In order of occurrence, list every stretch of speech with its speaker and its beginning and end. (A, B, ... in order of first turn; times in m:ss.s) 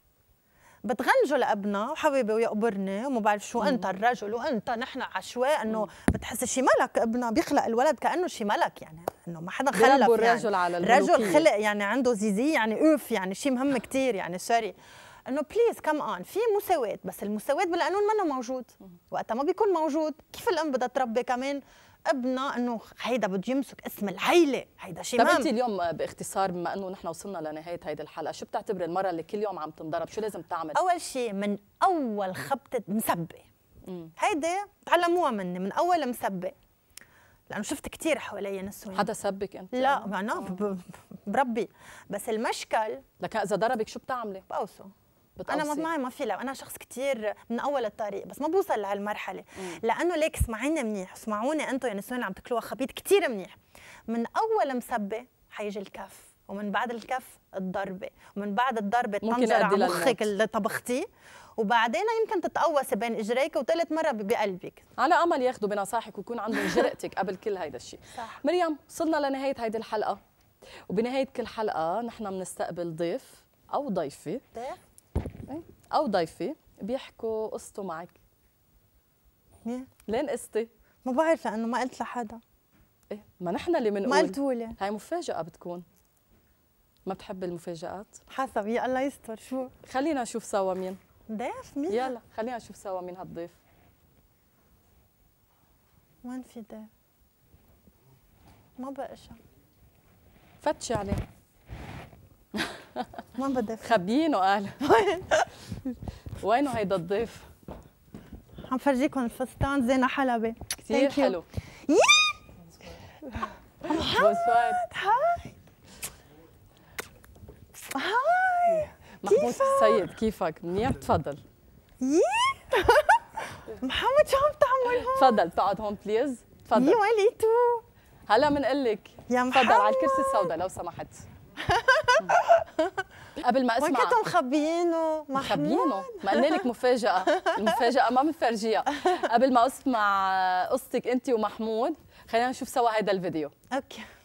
0:00.8-0:14.7 A
0:03.6-0:03.8 B
0:09.7-0:11.4 B
0:15.3-0:25.5 A
0:25.2-0:30.8 B
0:30.7-0:33.4 A
0:33.9-0:34.1 B
0:34.2-0:36.5 A
0:37.5-0:39.1 A
0:38.9-0:40.6 B
0:39.7-0:43.0 A
0:43.2-0:44.4 B
0:44.5-0:44.9 A
0:45.4-0:45.9 B
0:45.5-0:53.6 A
0:54.1-1:01.1 A
0:59.2-1:00.3 B
1:01.6-1:04.8 A
1:05.0-1:10.2 B
1:08.1-1:08.4 A
1:10.9-1:14.4 B
1:14.5-1:14.8 A
1:15.5-1:18.2 B
1:20.1-1:20.7 B
1:21.0-1:22.4 A
1:23.1-1:25.8 B
1:24.0-1:24.8 A
1:27.1-1:28.2 B
1:28.3-1:29.7 A
1:29.8-1:31.0 B
1:31.3-1:32.2 A
1:31.9-1:33.6 B
1:36.2-1:36.9 A
1:38.8-1:39.4 A
1:40.6-1:41.2 B
1:42.6-1:43.1 B
1:43.4-1:44.0 A
1:43.8-1:44.8 B
1:44.8-1:45.5 A
1:46.4-1:47.4 B
1:48.7-1:52.4 A
1:50.8-1:51.4 B
1:53.8-1:55.5 A
1:53.9-1:54.8 B
1:57.9-2:00.0 A
1:59.2-2:01.4 B
2:02.0-2:05.4 A
2:05.0-2:07.0 B
2:06.7-2:07.8 A
2:08.3-2:11.2 B
2:09.3-2:10.5 A
2:11.6-2:13.0 A
2:13.4-2:14.2 B
2:13.8-2:16.6 A
2:15.3-2:23.5 B
2:17.3-2:17.8 A
2:23.7-2:24.0 A